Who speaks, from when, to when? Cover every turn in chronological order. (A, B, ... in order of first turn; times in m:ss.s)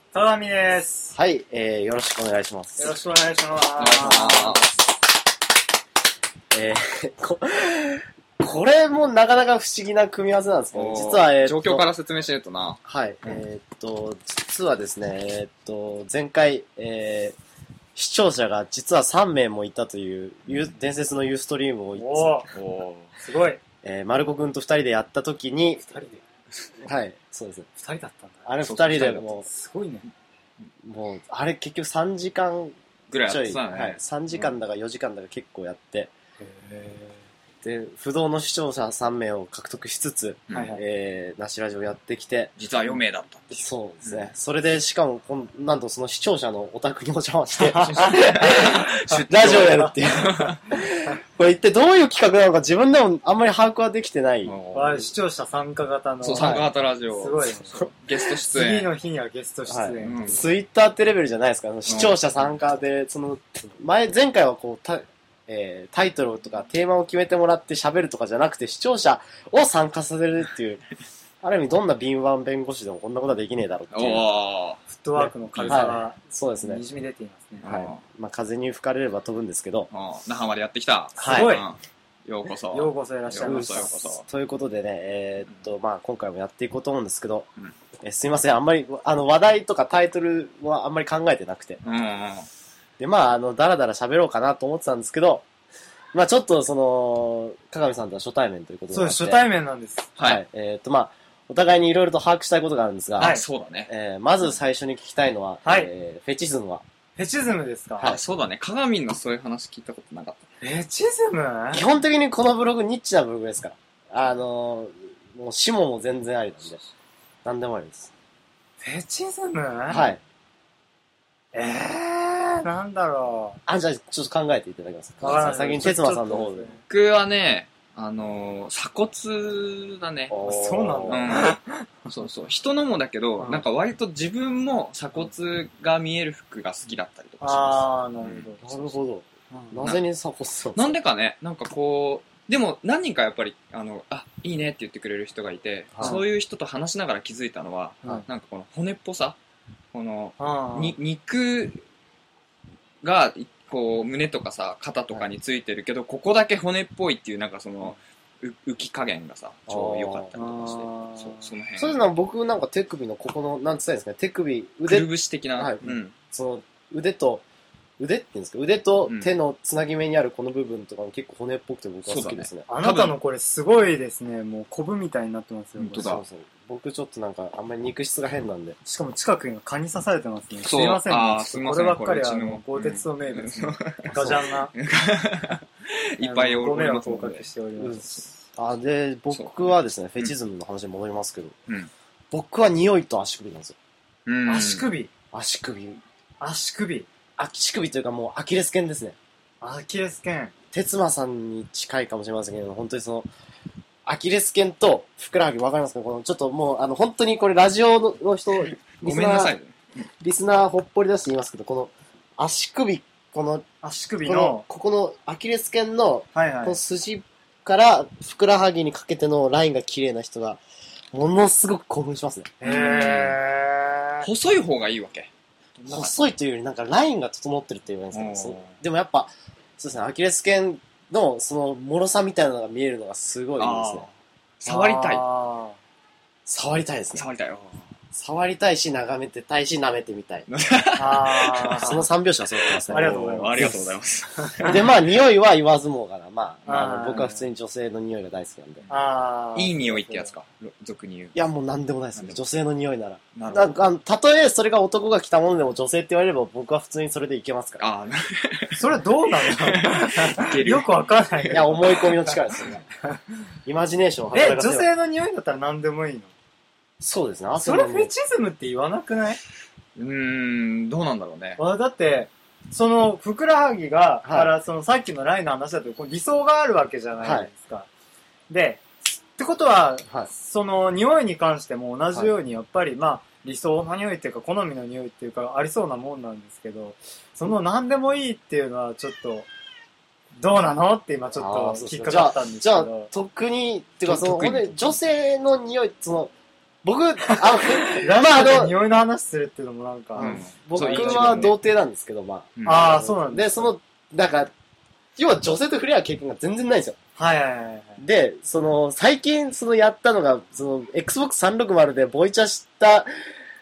0:00.1-0:01.2 A
0:01.1-0:03.0 B
0:02.8-0:04.9 A
0:03.8-0:04.6 C
0:06.5-0:11.9 B
0:10.7-0:13.4 C
0:12.8-0:17.4 B
0:18.0-0:22.4 B
0:22.0-0:22.5 A
0:22.5-0:23.1 C
0:23.2-0:23.6 A
0:23.8-0:25.8 B
0:25.8-0:26.2 A
0:26.8-0:27.7 B
0:27.8-0:28.5 A
0:28.5-0:29.5 B
0:28.6-0:29.3 C
0:29.4-0:30.1 A
0:30.8-0:36.1 B
0:33.1-0:34.0 C
0:36.4-0:37.2 A
0:37.6-0:42.6 B
0:40.5-0:40.8 C
0:40.5-0:40.8 A
0:42.6-0:44.2 C
0:43.5-0:54.6 B
0:47.6-0:49.9 A
0:47.8-0:50.6 C
0:54.4-0:55.1 C
0:54.7-0:57.9 A
0:56.2-0:58.9 C
0:56.4-0:56.7 B
0:58.5-1:00.4 A
0:59.7-1:10.8 B
1:00.0-1:00.4 C
1:01.9-1:02.2 C
1:11.4-1:14.3 B
1:13.9-1:14.8 C
1:14.9-1:17.7 A
1:15.2-1:16.8 B
1:15.5-1:16.0 C
1:17.6-1:18.0 C
1:17.6-1:19.9 B
1:19.9-1:24.3 C
1:21.2-1:21.6 A
1:21.2-1:21.6 B
1:22.7-1:24.0 A
1:23.4-1:27.5 B
1:28.0-1:31.8 B
1:31.8-1:32.5 C
1:33.0-1:35.5 B
1:36.1-1:39.4 B
1:38.9-1:40.1 A
1:40.2-1:40.4 C
1:40.2-1:46.8 B
1:43.2-1:43.9 C
1:45.6-1:45.9 A
1:47.2-1:48.2 A
1:48.0-1:50.4 C
1:50.6-1:51.8 A
1:51.7-1:56.8 B
1:57.4-1:58.1 B
1:58.8-2:00.1 A
1:59.9-2:00.2 B
2:01.5-2:03.6 A
2:03.7-2:06.7 B
2:05.2-2:06.8 A
2:05.2-2:05.6 C
2:06.9-2:10.4 C
2:10.3-2:11.5 B
2:10.4-2:11.9 A
2:11.1-2:18.8 C
2:13.4-2:13.7 A
2:17.4-2:18.6 A
2:18.6-2:21.0 B
2:19.5-2:19.8 A
2:20.8-2:29.4 C
2:25.9-2:26.2 B
2:29.9-2:31.8 C
2:30.4-2:31.0 A
2:33.0-2:42.0 C
2:39.7-2:40.4 B
2:40.4-2:41.5 A
2:41.8-2:47.4 B
2:44.9-2:46.1 C
2:48.0-2:52.7 B
2:49.1-2:49.3 C
2:52.0-2:53.2 C
2:52.7-2:56.2 A
2:55.8-2:56.2 C
2:56.0-2:58.8 B
2:58.8-3:04.7 A
3:00.6-3:05.6 C
3:04.1-3:04.4 B
3:06.1-3:07.5 C
3:06.2-3:08.4 A
3:07.8-3:11.5 B
3:09.3-3:10.3 C
3:12.3-3:13.8 B
3:14.3-3:14.9 C
3:14.5-3:15.1 A
3:15.3-3:16.0 B
3:16.4-3:17.1 A
3:17.4-3:19.2 B
3:19.6-3:20.5 A
3:20.7-3:23.3 B
3:24.1-3:29.6 B
3:28.9-3:29.8 C
3:30.2-3:33.6 B
3:33.8-3:34.6 A
3:34.2-3:40.6 B
3:36.3-3:36.8 A
3:41.1-3:42.5 B
3:42.6-3:44.3 A
3:42.6-3:43.4 C
3:44.2-3:46.2 C
3:45.9-3:54.1 B
3:48.1-3:48.8 C
3:53.6-3:55.2 C
3:54.7-3:55.8 A
3:56.5-3:57.3 B
3:57.1-3:57.8 C
3:58.1-4:00.5 B
4:00.5-4:02.0 C
4:01.0-4:02.0 A
4:01.8-4:03.8 B
4:02.6-4:05.0 C
4:02.9-4:03.8 A
4:04.6-4:08.8 B
4:06.7-4:07.5 A
4:08.9-4:10.4 A
4:09.6-4:11.4 C
4:11.4-4:17.8 B
4:12.2-4:12.4 C
4:13.3-4:13.8 C
4:17.8-4:22.0 C
4:18.8-4:22.4 A
4:21.5-4:22.8 B
4:23.7-4:24.9 B
4:24.3-4:26.3 A
4:27.0-4:28.1 B
4:27.6-4:29.4 A
4:30.0-4:31.6 C
4:31.6-4:37.9 A
4:34.2-4:34.5 B
4:37.2-4:37.5 B
4:38.5-4:49.5 A
4:50.4-4:53.1 A
4:51.4-4:56.3 B
4:54.1-4:55.0 C
4:56.8-4:58.8 B
4:57.2-5:01.5 A
5:00.2-5:04.5 B
5:00.2-5:01.6 C
5:02.6-5:02.9 C
5:02.6-5:03.7 A
5:05.2-5:07.0 B
5:07.2-5:08.0 A
5:08.0-5:13.1 B